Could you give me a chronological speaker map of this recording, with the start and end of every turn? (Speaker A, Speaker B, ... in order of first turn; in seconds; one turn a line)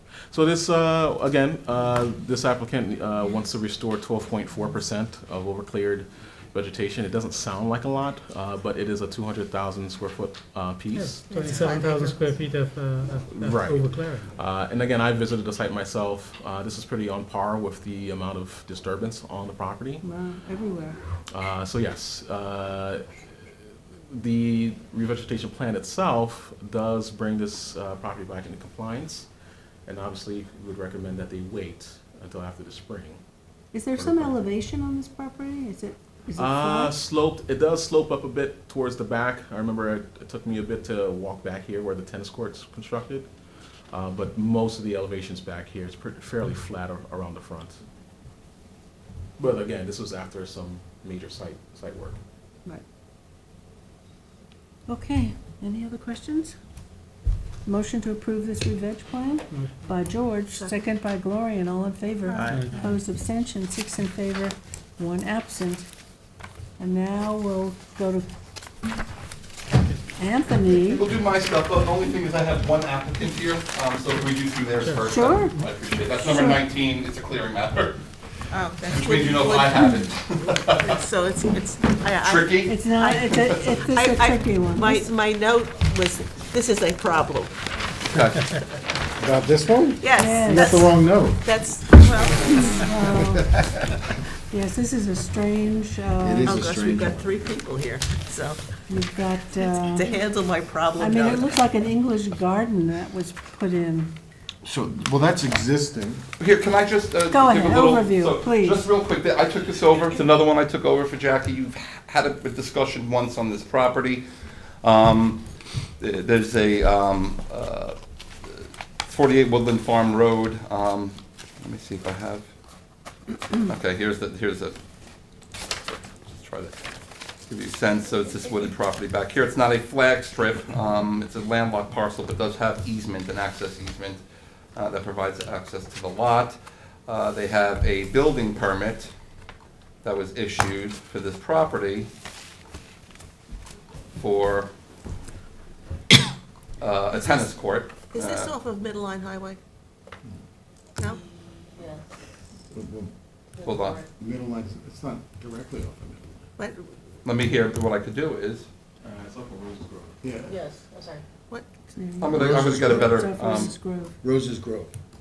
Speaker A: 0.3-11.2
Speaker B: 10.9-14.3
Speaker C: 11.3-12.3
Speaker A: 13.3-20.0
Speaker D: 20.0-21.0
Speaker A: 21.3-29.3
Speaker A: 29.8-33.2
Speaker D: 33.7-36.9
Speaker A: 33.9-34.5
Speaker A: 36.4-43.3
Speaker A: 43.9-47.8
Speaker A: 49.4-52.2
Speaker D: 54.9-56.5
Speaker D: 57.6-65.8
Speaker C: 62.3-62.7
Speaker B: 62.4-62.9
Speaker D: 66.8-68.3
Speaker D: 70.2-71.0
Speaker E: 70.9-78.0
Speaker B: 74.8-75.1
Speaker D: 75.1-75.5
Speaker D: 76.2-76.6
Speaker C: 78.5-80.0
Speaker E: 78.9-81.0
Speaker C: 80.7-83.3
Speaker E: 82.2-82.8
Speaker D: 82.7-85.1
Speaker E: 83.3-83.8
Speaker C: 83.9-87.5
Speaker E: 88.1-88.6
Speaker F: 89.2-91.4
Speaker C: 90.0-92.9
Speaker D: 90.1-90.9
Speaker D: 92.5-93.5
Speaker D: 94.5-96.6
Speaker F: 96.2-97.4
Speaker C: 96.4-98.6
Speaker D: 98.9-100.2
Speaker C: 99.9-101.6
Speaker D: 101.0-104.1
Speaker F: 104.6-106.2
Speaker E: 106.4-114.2
Speaker D: 107.3-108.8
Speaker E: 114.8-115.4
Speaker E: 116.0-118.0
Speaker E: 118.5-122.5
Speaker E: 123.6-124.7
Speaker E: 125.8-126.7
Speaker E: 127.5-134.2
Speaker E: 134.8-139.1
Speaker E: 140.0-142.1
Speaker E: 144.2-144.7
Speaker E: 146.8-148.5
Speaker C: 147.1-147.5
Speaker C: 148.1-149.6
Speaker F: 152.7-153.1
Speaker E: 153.6-154.0
Speaker F: 154.2-156.4
Speaker C: 156.6-156.9
Speaker E: 157.2-158.7
Speaker A: 159.0-160.2
Speaker F: 160.2-160.6
Speaker D: 161.9-164.1
Speaker E: 162.2-163.8
Speaker F: 162.3-163.7
Speaker F: 164.2-164.9